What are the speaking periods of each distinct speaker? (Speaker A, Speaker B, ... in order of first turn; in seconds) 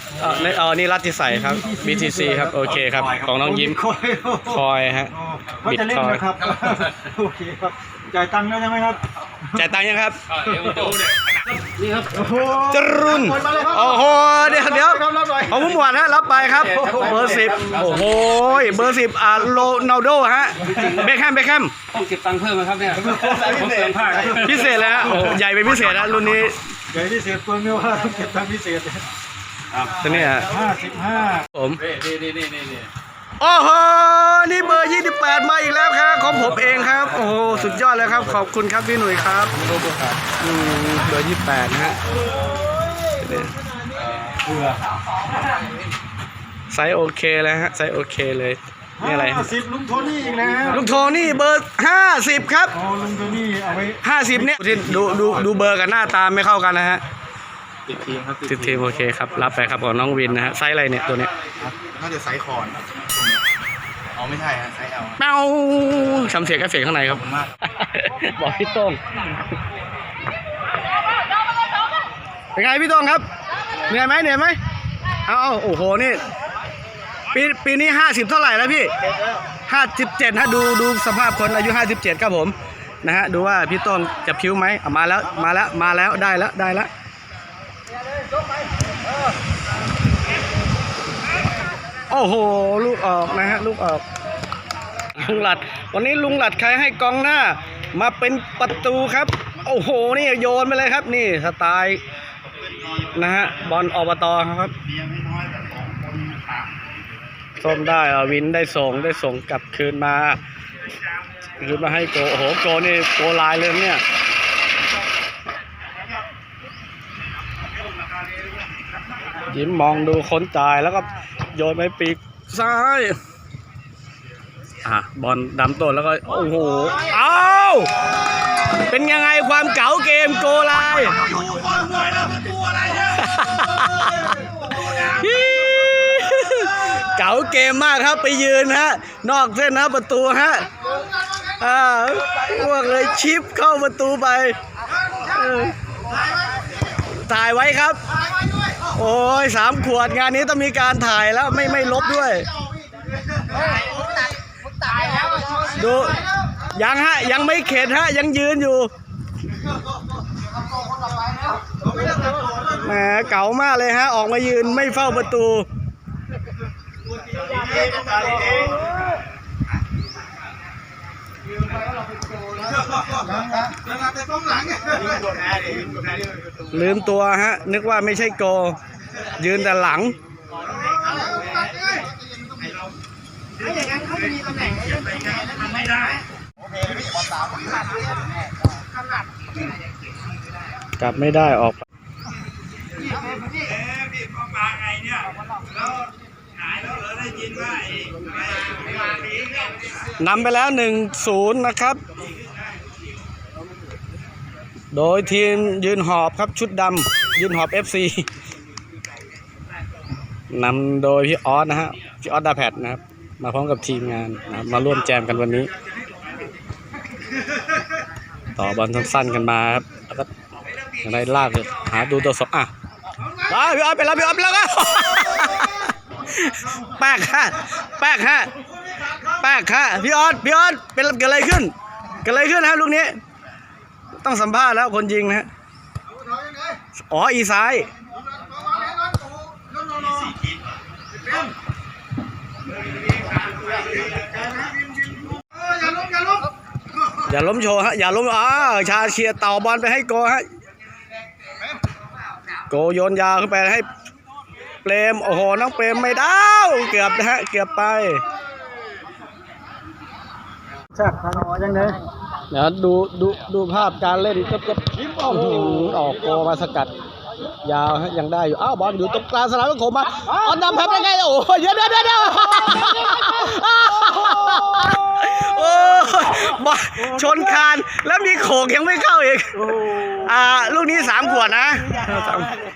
Speaker A: 0.2-3.8, 4.5-6.3, 9.5-10.2, 12.7-21.7, 24.3-26.6, 30.0-30.5, 31.5-31.8, 33.4-39.5, 40.4-42.0, 43.2-43.5, 46.7-49.5, 50.7-52.7, 54.0-57.0, 58.5-61.3, 65.2-69.0, 72.5-73.2, 73.9-74.6, 75.3-76.2, 77.3-78.9, 79.7-86.9, 92.1-94.0, 95.2-102.0, 103.2-104.7, 107.6-110.4, 111.6-114.0, 119.4-123.2, 124.8-127.9, 128.7-131.3, 132.9-140.7, 141.5-144.6, 145.2-145.8, 147.1-148.0, 148.9-152.5, 155.7-156.2, 156.7-158.9, 162.7-165.7, 176.7-178.8, 179.4-180.2, 191.0-191.8, 200.2-202.0, 204.9-208.3, 210.5-215.7, 218.6-220.3, 221.0-222.7, 223.5-228.5, 229.4-231.7, 232.2-233.2, 234.2-235.5, 237.1-237.9, 247.2-250.4, 252.7-253.9, 254.8-258.2, 262.5-266.9, 267.6-282.5
Speaker B: 1.2-9.0, 12.2-13.9, 23.1-25.3, 26.9-29.0, 30.4-31.5, 49.0-51.0, 52.7-54.6, 260.9-262.0, 265.1-265.9, 270.3-270.6, 277.0-277.6, 279.6-280.3
Speaker C: 10.3-12.2, 16.4-19.0, 20.6-21.1, 21.9-25.1, 29.7-30.4, 31.8-32.9, 36.4-38.0, 39.6-40.2, 57.9-58.8
Speaker D: 58.1-58.4, 61.8-62.8, 64.2-65.0